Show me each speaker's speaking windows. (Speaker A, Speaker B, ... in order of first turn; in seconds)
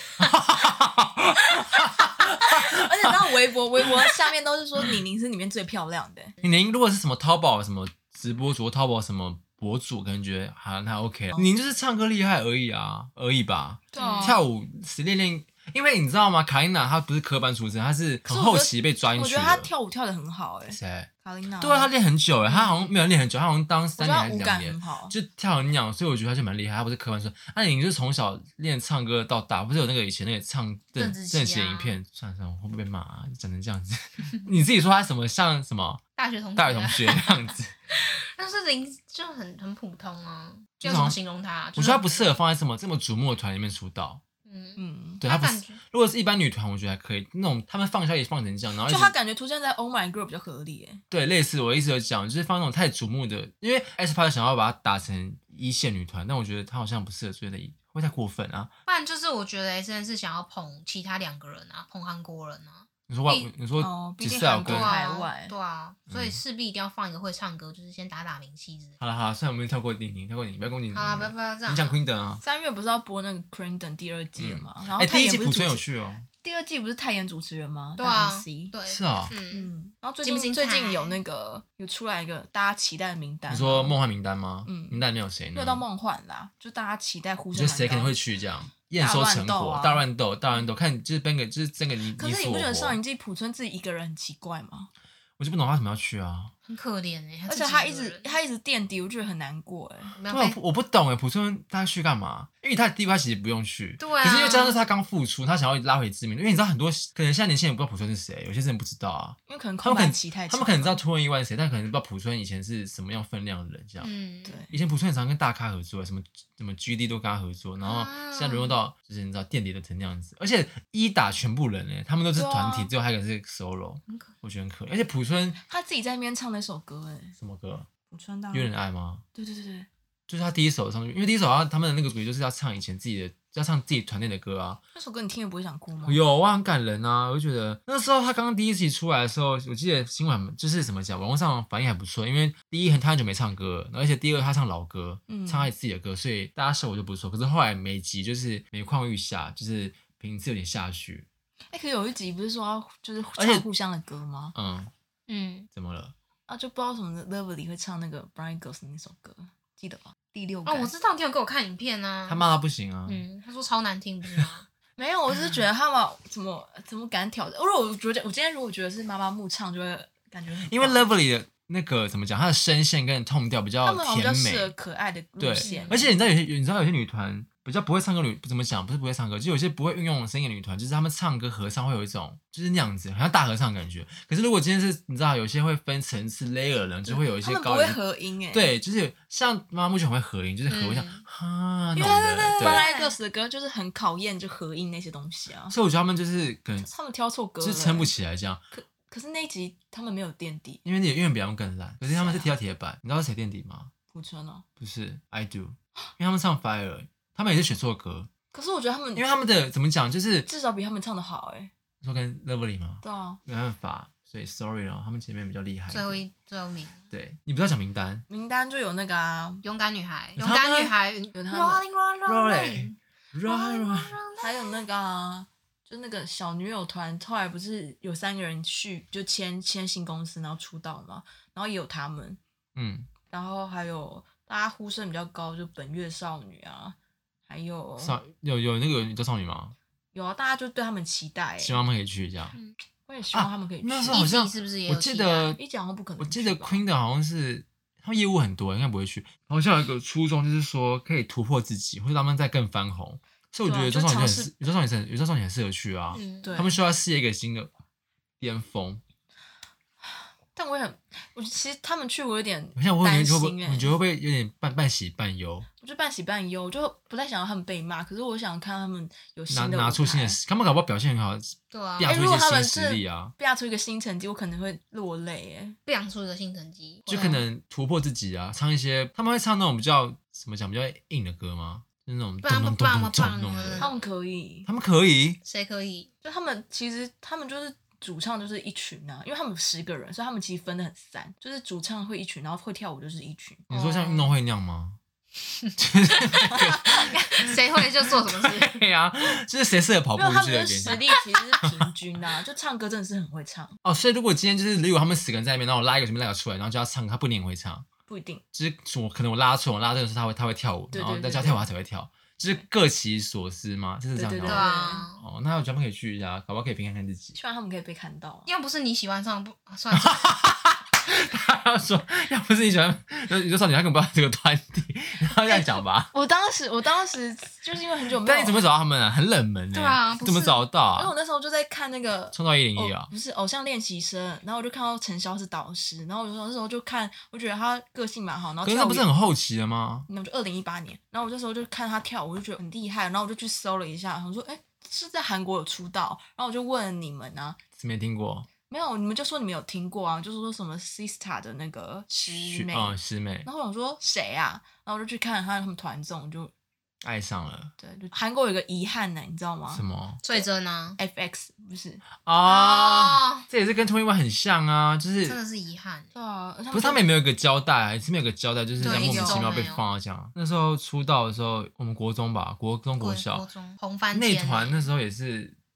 Speaker A: 0.2-3.3, 3.8-4.1, 6.4-19.7, 20.7-21.1, 21.6-36.0, 36.6-37.7, 40.8-41.2, 41.8-44.2, 45.2-49.1, 51.1-58.7, 63.1-64.9, 66.1-66.4, 69.0-72.4, 74.4-76.3, 78.9-79.3, 83.5-85.8, 87.5-93.0, 95.4-96.5, 100.3-114.1, 114.7-125.6, 127.4-127.9, 128.5-129.2, 130.3-134.8, 136.1-151.3, 153.4-153.7, 154.6-154.9, 155.7-156.2, 162.3-163.2, 170.7-174.7, 175.4-188.0, 188.5-192.9, 195.7-196.9, 197.6-198.6, 200.8-203.9, 204.8-208.3, 209.2-210.5, 212.0-216.2, 217.1-218.2, 220.4-220.9, 222.3-224.2, 232.8-233.1, 238.0-239.8, 241.6-242.6, 243.3-245.6, 246.2-257.7, 258.4-259.0, 262.8-265.7, 269.5-273.3, 277.1-283.9, 284.7-285.4, 293.7-295.0, 295.8-301.1, 303.8-307.9, 308.5-317.4, 319.9-326.1, 328.2-331.1, 332.3-333.1, 338.6-340.1, 347.8-348.5, 352.4-353.5, 357.0-357.7, 359.7-360.2, 362.2-365.4, 366.7-373.5, 374.1-375.6
Speaker B: 2.4-6.4, 13.9-14.4, 18.2-21.9, 22.5-22.8, 24.0-25.1, 44.8-45.2, 48.9-51.0, 63.8-65.5, 72.4-75.9, 76.4-78.7, 79.5-84.0, 84.7-85.0, 85.5-88.2, 89.0-90.1, 92.2-94.9, 97.5-100.2, 109.5-111.0, 114.5-114.7, 122.3-122.9, 125.6-127.4, 128.1-128.7, 129.3-129.9, 134.9-136.2, 145.3-145.7, 151.7-154.5, 156.5-160.9, 165.0-171.1, 173.8-176.2, 187.1-188.7, 191.9-195.8, 196.8-198.1, 198.7-200.8, 202.1-202.5, 204.1-204.7, 208.5-209.3, 210.5-211.7, 213.0-213.4, 218.3-219.6, 221.3-221.8, 224.4-232.4, 233.3-237.0, 237.5-238.2, 240.1-241.8, 243.1-244.3, 245.6-246.8, 253.7-254.6, 256.4-256.8, 260.0-263.9, 265.8-270.4, 272.0-275.8, 283.8-284.7, 286.2-293.7, 300.1-303.8, 308.1-308.4, 310.9-311.6, 314.2-315.1, 317.4-318.5, 325.5-328.6, 331.0-339.1, 340.1-347.6, 348.7-356.5, 357.8-360.5, 361.0-362.0, 366.1-367.1, 368.8-369.5
Speaker C: 13.9-14.4, 31.0-32.0, 36.2-42.3, 44.5-45.8, 58.9-63.5, 64.7-69.0, 70.9-72.0, 78.0-79.7, 80.2-81.2, 96.7-98.3, 100.2-100.6, 104.0-104.8, 114.0-114.6, 117.8-118.8, 124.1-124.3, 155.3-155.7, 160.7-162.5, 163.1-164.7, 175.6-176.0, 190.7-191.2, 192.0-193.2, 215.9-217.1, 219.6-224.8, 244.1-245.6, 256.1-256.6, 271.7-272.1, 275.9-277.4, 282.4-283.9, 285.4-286.1, 293.7-294.3, 295.6-298.8, 314.4-315.2, 318.5-320.4, 329.7-330.6, 360.2-361.0, 362.4-363.4, 365.3-366.1, 368.8-369.9, 373.0-374.9